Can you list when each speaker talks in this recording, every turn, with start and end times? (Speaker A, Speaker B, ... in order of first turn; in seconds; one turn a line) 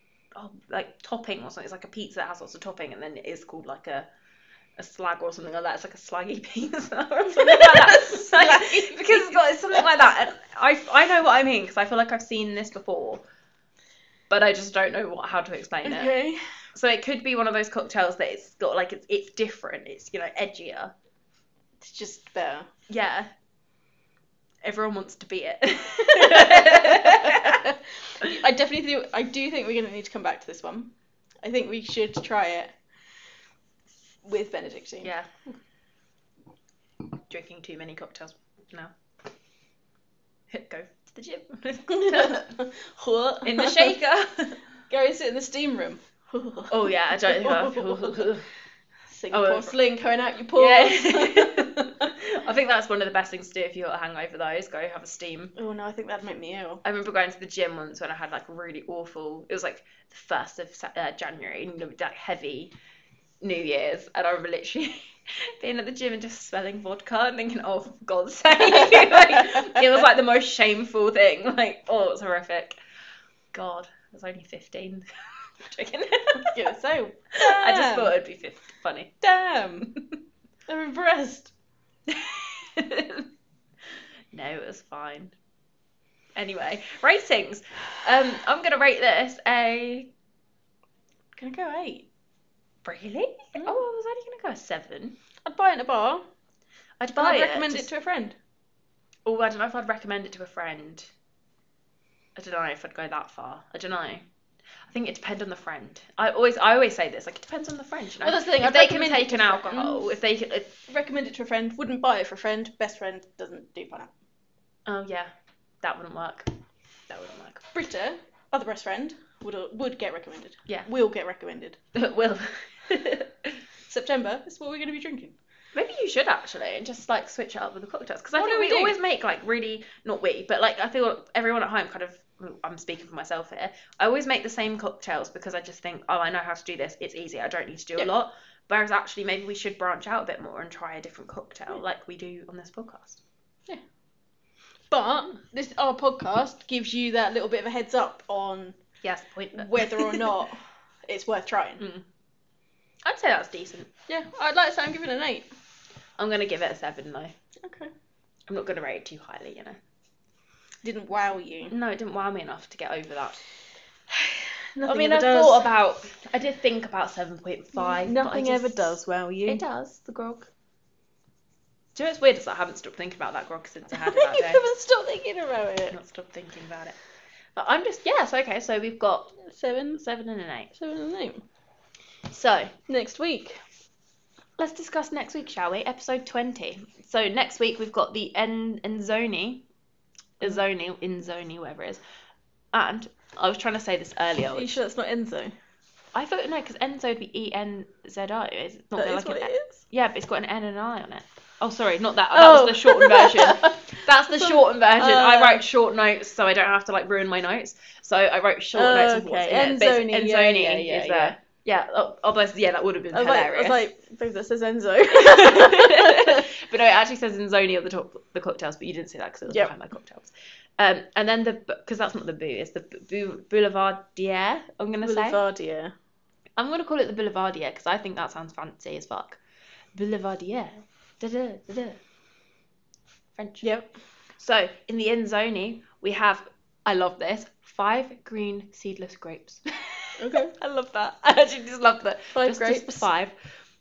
Speaker A: 0.3-4.1
Speaker A: 4.8-13.2
Speaker B: 7.3-10.1
Speaker A: 14.3-16.1
Speaker B: 15.8-16.4
Speaker A: 16.7-20.9
Speaker B: 21.8-22.7
Speaker A: 22.9-23.3
Speaker A: 24.6-27.7
Speaker B: 26.1-30.9
Speaker B: 31.4-32.7
Speaker B: 34.2-35.1
Speaker A: 35.0-35.3
Speaker A: 37.3-38.9
Speaker A: 40.5-42.6
Speaker B: 41.9-44.0
Speaker A: 43.4-44.6
Speaker B: 44.9-48.3
Speaker A: 46.7-48.5
Speaker B: 49.1-52.1
Speaker A: 49.3-49.8
Speaker A: 50.6-55.5
Speaker B: 55.6-56.8
Speaker A: 56.8-62.7
Speaker A: 63.4-72.8
Speaker A: 73.5-76.6
Speaker B: 76.4-78.2
Speaker A: 77.3-79.2
Speaker B: 79.2-79.9
Speaker B: 80.7-81.5
Speaker A: 82.1-83.3
Speaker A: 84.3-85.3
Speaker A: 86.4-90.1
Speaker B: 91.4-92.1
Speaker A: 92.8-95.2
Speaker B: 93.5-93.8
Speaker B: 95.4-96.2
Speaker A: 97.0-97.9
Speaker B: 97.2-98.4
Speaker A: 99.3-101.1
Speaker A: 102.4-104.2
Speaker A: 104.9-110.8
Speaker B: 108.2-110.1
Speaker B: 110.9-114.1
Speaker A: 114.9-116.6
Speaker A: 117.1-117.7
Speaker B: 117.7-121.8
Speaker A: 121.9-123.6
Speaker B: 123.9-125.4
Speaker A: 125.7-143.2
Speaker B: 128.4-129.0
Speaker B: 144.9-148.8
Speaker A: 149.0-150.3
Speaker B: 149.6-151.8
Speaker A: 151.8-152.0
Speaker A: 153.1-153.9
Speaker B: 154.1-155.5
Speaker A: 156.2-157.3
Speaker B: 157.6-157.9
Speaker A: 158.5-159.8
Speaker B: 160.8-161.7
Speaker A: 161.7-163.4
Speaker B: 164.1-165.7
Speaker A: 164.8-170.5
Speaker B: 167.8-169.6
Speaker A: 171.9-174.7
Speaker B: 173.9-176.0
Speaker A: 175.9-177.0
Speaker A: 177.6-179.4
Speaker B: 179.4-180.0
Speaker A: 180.0-180.7
Speaker B: 180.7-181.4
Speaker A: 182.3-182.7
Speaker B: 182.9-183.6
Speaker A: 184.6-189.7
Speaker A: 190.4-192.0
Speaker A: 192.7-194.8
Speaker B: 194.6-195.5
Speaker A: 196.1-213.8
Speaker B: 198.9-199.8
Speaker B: 202.3-205.6
Speaker B: 208.7-211.4
Speaker B: 213.1-216.5
Speaker A: 215.1-225.4
Speaker B: 225.0-225.9
Speaker A: 226.6-229.4
Speaker A: 229.9-232.0
Speaker A: 233.4-233.7
Speaker B: 233.6-233.9
Speaker A: 234.4-243.3
Speaker B: 240.2-240.5
Speaker B: 242.3-243.1